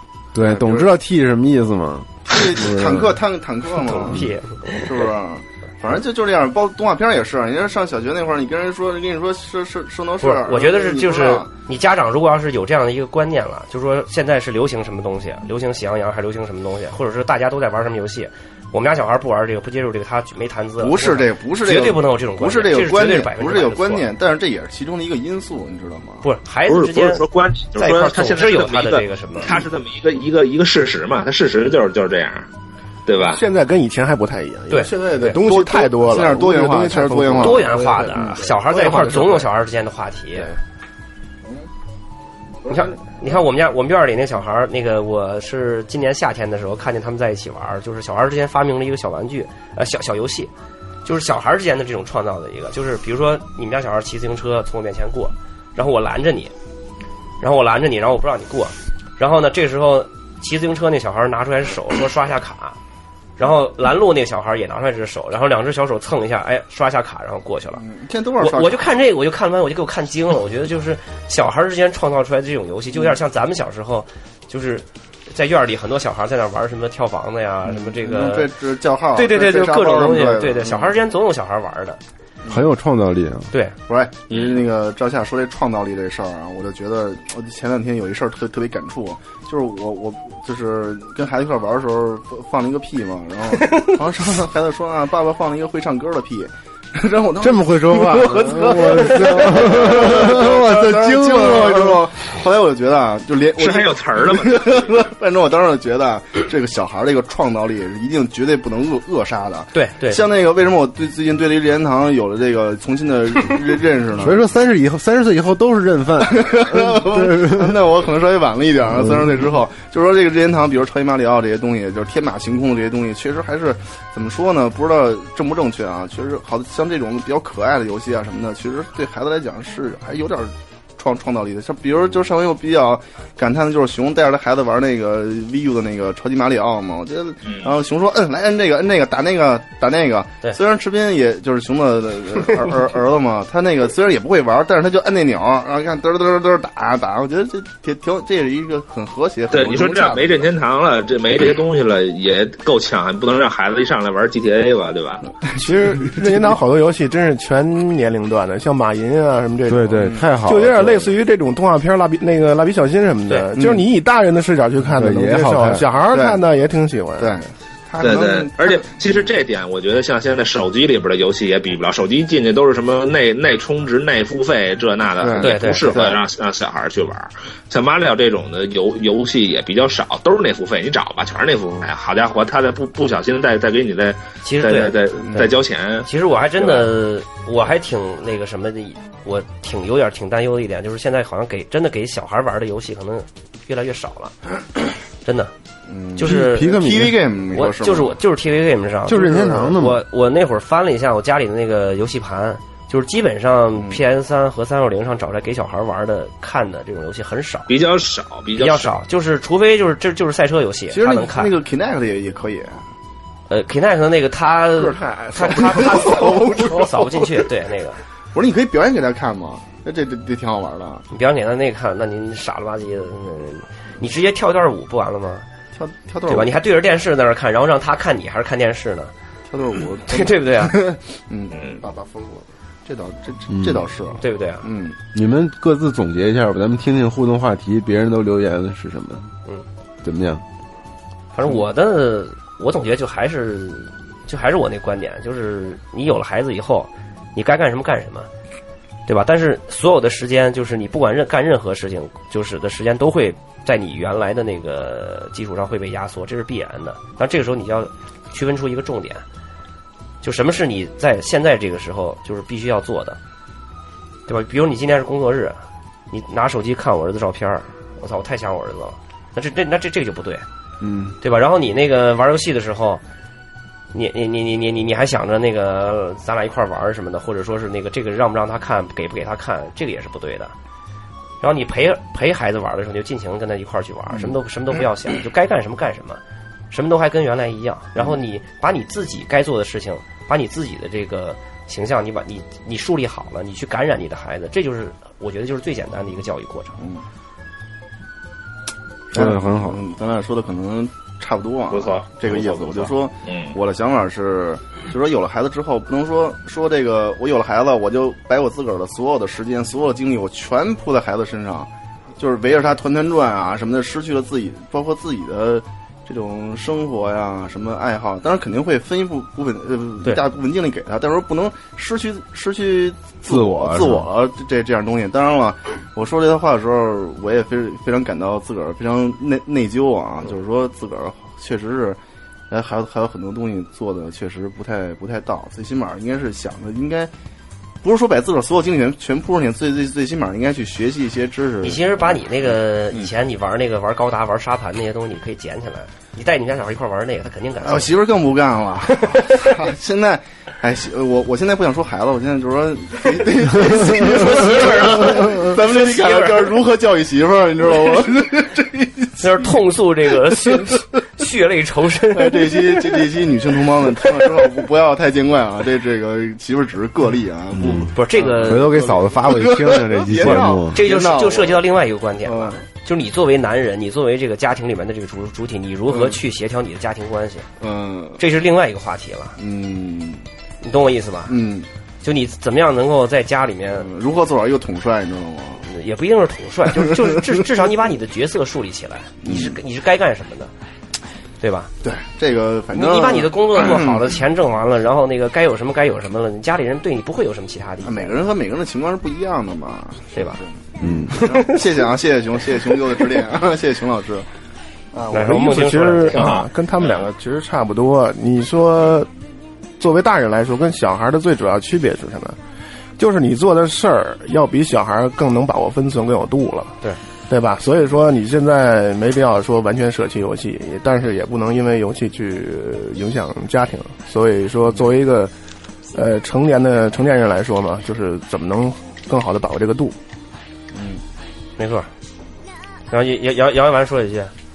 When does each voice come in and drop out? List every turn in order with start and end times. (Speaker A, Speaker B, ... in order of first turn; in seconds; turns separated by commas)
Speaker A: 0.3-3.2, Speaker B: 0.4-0.9, Speaker B: 2.3-11.5, Speaker C: 3.8-4.9, Speaker C: 10.2-24.1, Speaker B: 20.8-26.2, Speaker C: 26.2-27.2, Speaker D: 26.7-32.5, Speaker C: 27.8-29.6, Speaker D: 33.0-33.4, Speaker E: 33.3-39.5, Speaker C: 34.7-35.4, Speaker B: 35.0-38.4, Speaker C: 37.4-40.5, Speaker C: 42.7-50.5, Speaker C: 51.0-56.5, Speaker C: 57.4-62.8, Speaker C: 63.4-67.8, Speaker B: 67.8-68.9, Speaker C: 68.4-78.5, Speaker B: 77.7-80.9, Speaker C: 79.1-82.0, Speaker A: 82.5-83.5, Speaker C: 83.5-83.8, Speaker B: 83.9-114.4, Speaker D: 84.3-84.6, Speaker A: 97.4-102.0, Speaker D: 103.6-105.0, Speaker C: 109.7-110.2, Speaker A: 114.2-117.8, Speaker B: 116.2-150.5, Speaker A: 118.9-119.5, Speaker D: 137.4-137.7, Speaker D: 149.5-155.3, Speaker E: 155.6-167.4, Speaker A: 159.7-161.1, Speaker B: 160.0-160.2, Speaker B: 163.6-163.8, Speaker A: 164.9-165.8, Speaker B: 166.1-166.4, Speaker B: 167.2-168.9, Speaker D: 168.0-186.1, Speaker B: 175.2-176.2, Speaker C: 175.4-175.9, Speaker C: 184.4-185.5, Speaker C: 186.1-194.3, Speaker D: 186.6-186.8, Speaker C: 195.2-195.5, Speaker B: 195.9-198.2, Speaker C: 196.2-196.8, Speaker A: 196.2-197.2, Speaker C: 197.5-207.7, Speaker A: 199.1-200.0, Speaker D: 207.7-208.9, Speaker C: 208.6-211.5, Speaker B: 210.9-212.8, Speaker C: 213.5-218.0, Speaker E: 214.8-216.0, Speaker B: 215.4-217.1, Speaker B: 218.3-221.0, Speaker C: 221.1-225.4, Speaker B: 225.7-226.6, Speaker C: 226.3-229.1, Speaker B: 229.5-235.0, Speaker C: 230.1-230.8, Speaker D: 231.5-231.8, Speaker A: 233.5-233.9, Speaker C: 234.2-234.7, Speaker A: 235.1-239.3, Speaker A: 240.0-240.4, Speaker C: 241.3-248.3, Speaker C: 249.1-259.2, Speaker C: 260.2-263.2, Speaker C: 264.3-265.6, Speaker C: 266.1-270.4, Speaker A: 270.8-271.1, Speaker C: 271.2-273.0, Speaker C: 273.9-280.5, Speaker C: 281.4-296.8, Speaker A: 299.1-299.8, Speaker B: 299.1-332.0, Speaker D: 301.7-303.6, Speaker A: 323.2-324.1, Speaker B: 332.5-337.1, Speaker B: 337.8-343.1, Speaker C: 341.6-347.9, Speaker B: 347.6-359.6, Speaker C: 349.1-349.4, Speaker C: 353.9-356.6, Speaker C: 359.2-363.0, Speaker B: 362.1-371.7, Speaker A: 367.5-367.9, Speaker C: 367.9-368.9, Speaker A: 368.4-370.8, Speaker C: 370.7-377.5, Speaker B: 372.2-372.6, Speaker B: 375.9-376.2, Speaker B: 377.6-378.2, Speaker C: 378.2-379.4, Speaker B: 379.4-380.2, Speaker C: 380.6-381.4, Speaker B: 381.3-381.7, Speaker C: 382.0-383.9, Speaker B: 383.7-385.6, Speaker C: 385.7-390.5, Speaker B: 389.2-389.6, Speaker C: 391.4-391.7, Speaker B: 391.8-394.1, Speaker C: 392.7-398.2, Speaker B: 397.8-404.2, Speaker C: 400.1-400.4, Speaker A: 400.8-401.1, Speaker C: 401.2-401.6, Speaker C: 405.1-406.3, Speaker E: 405.1-409.1, Speaker D: 406.1-407.0, Speaker E: 409.8-412.4, Speaker E: 413.0-416.8, Speaker E: 417.3-425.3, Speaker E: 425.9-429.9, Speaker B: 430.7-431.0, Speaker C: 431.6-431.9, Speaker C: 432.9-434.3